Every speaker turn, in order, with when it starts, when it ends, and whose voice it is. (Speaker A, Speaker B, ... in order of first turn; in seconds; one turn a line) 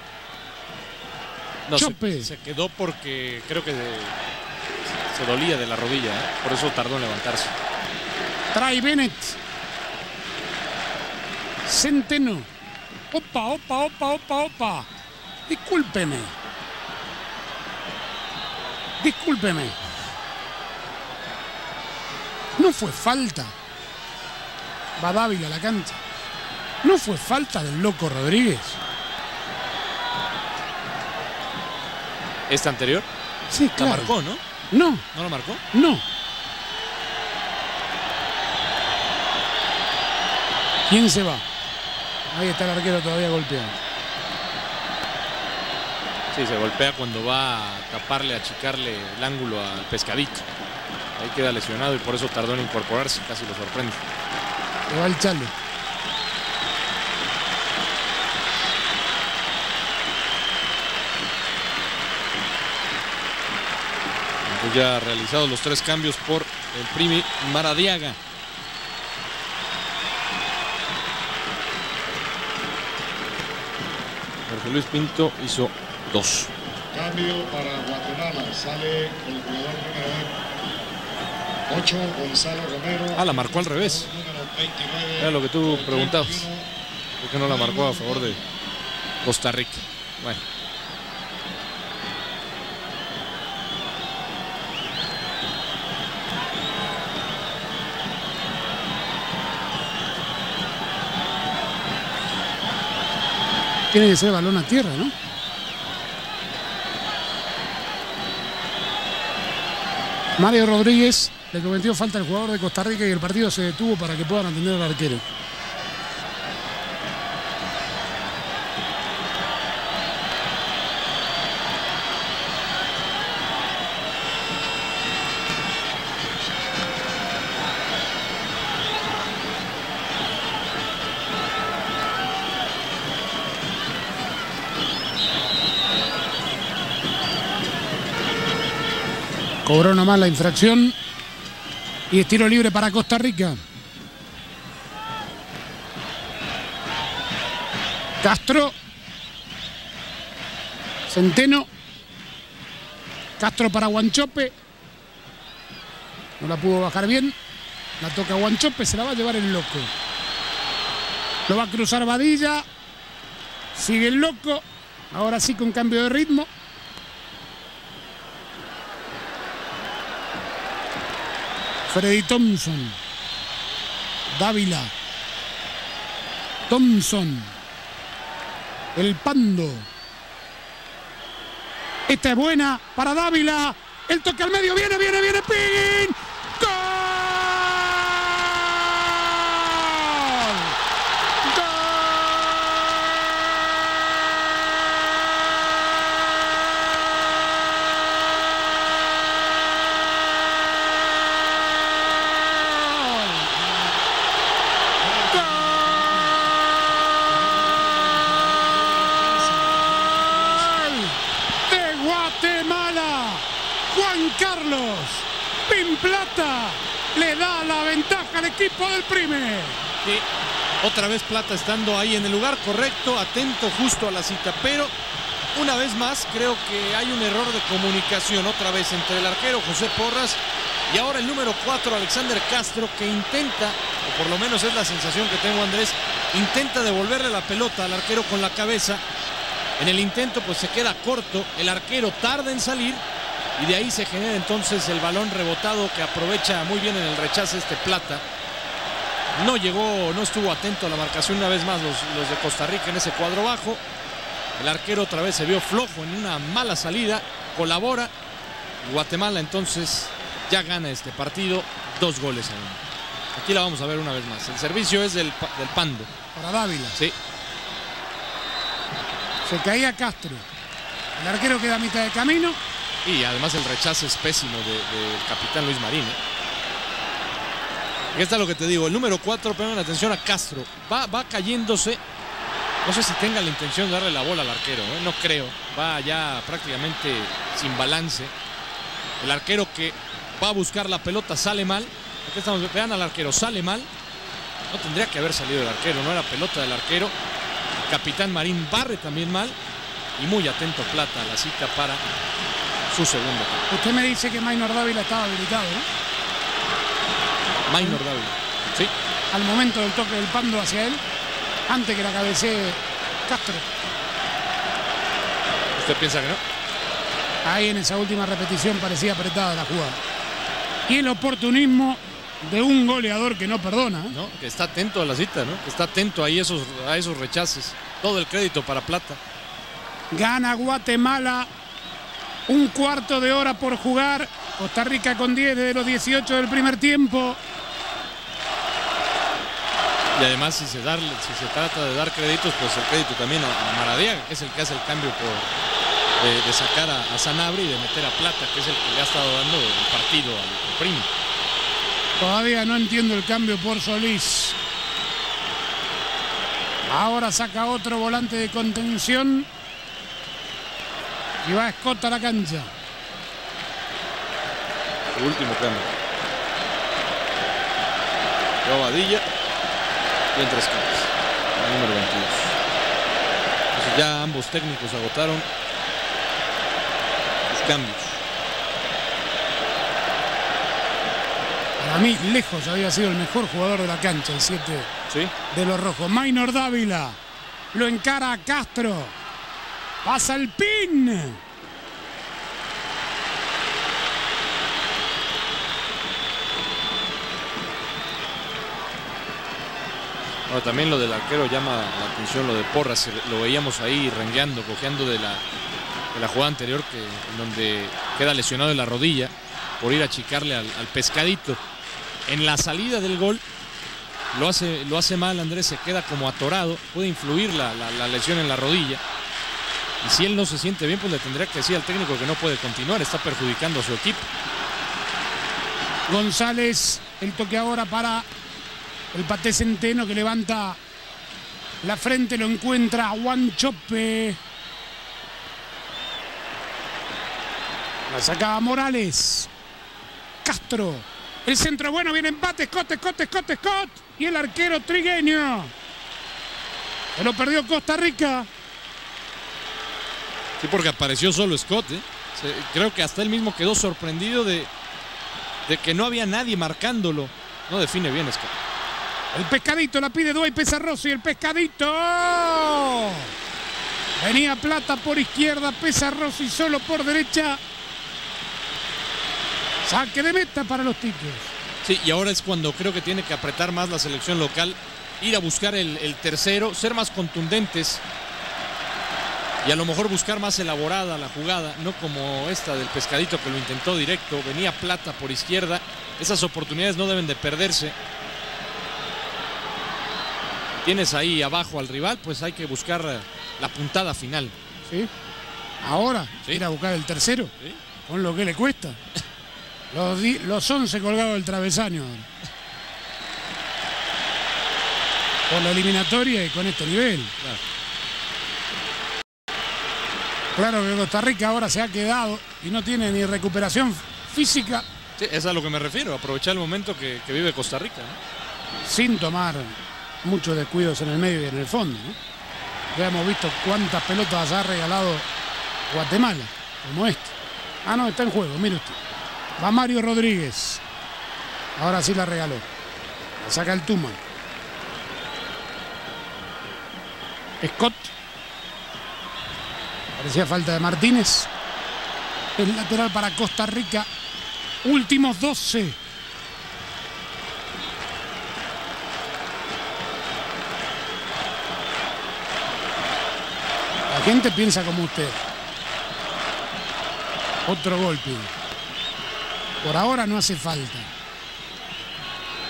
Speaker A: 1.6-4.2
Speaker B: 1.7-2.3
Speaker A: 4.8-7.5
Speaker B: 8.5-9.4
Speaker B: 11.6-12.5
Speaker B: 13.1-14.9
Speaker B: 15.5-16.3
Speaker B: 19.0-19.8
Speaker B: 22.6-23.5
Speaker B: 25.0-26.0
Speaker B: 26.8-28.8
Speaker A: 32.5-33.1
Speaker B: 33.5-34.1
Speaker A: 33.8-34.4
Speaker B: 34.7-35.0
Speaker A: 35.1-35.6
Speaker B: 35.7-36.0
Speaker B: 40.9-41.4
Speaker B: 42.3-43.8
Speaker A: 46.3-50.4
Speaker A: 51.1-54.0
Speaker B: 54.9-55.5
Speaker A: 64.4-68.2
Speaker A: 74.5-76.5
Speaker C: 76.9-80.3
Speaker C: 81.7-86.6
Speaker A: 83.1-84.1
Speaker A: 85.2-86.5
Speaker A: 87.2-88.4
Speaker C: 87.4-88.4
Speaker A: 89.2-90.4
Speaker B: 103.9-105.1
Speaker B: 110.4-115.2
Speaker B: 139.7-140.9
Speaker B: 142.1-143.6
Speaker B: 148.2-148.7
Speaker B: 151.1-151.7
Speaker B: 153.4-154.5
Speaker B: 156.4-157.3
Speaker B: 158.0-159.9
Speaker B: 161.5-162.7
Speaker B: 163.7-166.5
Speaker B: 171.9-173.0
Speaker B: 174.3-174.9
Speaker B: 176.7-177.5
Speaker B: 178.9-179.9
Speaker B: 182.1-190.7
Speaker B: 191.4-192.9
Speaker C: 205.2-205.9
Speaker B: 205.3-205.7
Speaker C: 208.1-210.1
Speaker B: 210.1-211.2
Speaker B: 211.7-219.8
Speaker A: 220.8-224.9
Speaker A: 225.5-239.0
Speaker A: 239.8-243.0
Speaker A: 243.6-248.2
Speaker A: 249.3-253.8
Speaker A: 254.6-258.1
Speaker A: 258.8-262.8
Speaker A: 263.3-266.1
Speaker B: 266.3-267.0
Speaker B: 269.4-270.5
Speaker B: 271.2-272.6
Speaker A: 273.0-276.2
Speaker A: 278.1-282.0
Speaker A: 282.8-288.3
Speaker A: 289.2-293.9
Speaker A: 294.7-297.1
Speaker A: 297.8-299.6
Speaker A: 300.1-302.0
Speaker A: 302.9-303.6
Speaker B: 303.7-305.9
Speaker A: 307.6-308.9
Speaker B: 309.3-311.0
Speaker B: 311.7-313.7
Speaker A: 315.7-316.4
Speaker B: 317.4-320.0
Speaker B: 320.9-324.1
Speaker A: 324.1-329.2
Speaker B: 330.1-331.5
Speaker B: 332.5-337.4
Speaker A: 340.1-345.5
Speaker A: 346.2-351.1
Speaker B: 352.2-354.6
Speaker B: 356.9-359.5
Speaker B: 361.4-362.7
Speaker A: 365.1-365.9
Speaker A: 368.6-369.2
Speaker A: 370.3-372.5
Speaker A: 373.7-375.5
Speaker A: 377.5-378.2
Speaker B: 381.8-384.9
Speaker A: 385.1-385.3
Speaker B: 385.5-387.2
Speaker B: 387.7-389.1
Speaker B: 390.0-391.4
Speaker A: 400.5-405.4
Speaker A: 406.1-411.6
Speaker A: 412.3-413.4
Speaker A: 414.3-419.0
Speaker A: 420.0-424.3
Speaker B: 426.1-428.2
Speaker B: 429.1-430.8
Speaker B: 431.8-434.4
Speaker B: 438.1-439.5
Speaker B: 440.4-445.7
Speaker B: 447.1-448.5
Speaker A: 450.6-454.7
Speaker A: 455.6-458.5
Speaker B: 459.3-463.3
Speaker B: 464.2-467.6
Speaker B: 469.8-471.5
Speaker A: 471.8-478.0
Speaker A: 479.6-487.9
Speaker A: 490.8-494.5
Speaker B: 495.8-497.5
Speaker B: 498.0-499.0
Speaker B: 499.9-502.3
Speaker B: 505.5-507.3
Speaker B: 510.6-514.9
Speaker A: 515.2-518.2
Speaker B: 518.8-522.2
Speaker B: 522.9-525.2
Speaker B: 525.9-529.0
Speaker B: 529.6-530.8
Speaker B: 531.8-532.6
Speaker B: 533.4-534.2
Speaker B: 537.6-538.1
Speaker B: 540.2-541.5
Speaker B: 542.5-544.1
Speaker B: 544.8-546.0
Speaker B: 554.1-555.4
Speaker B: 557.6-558.5
Speaker B: 559.8-561.1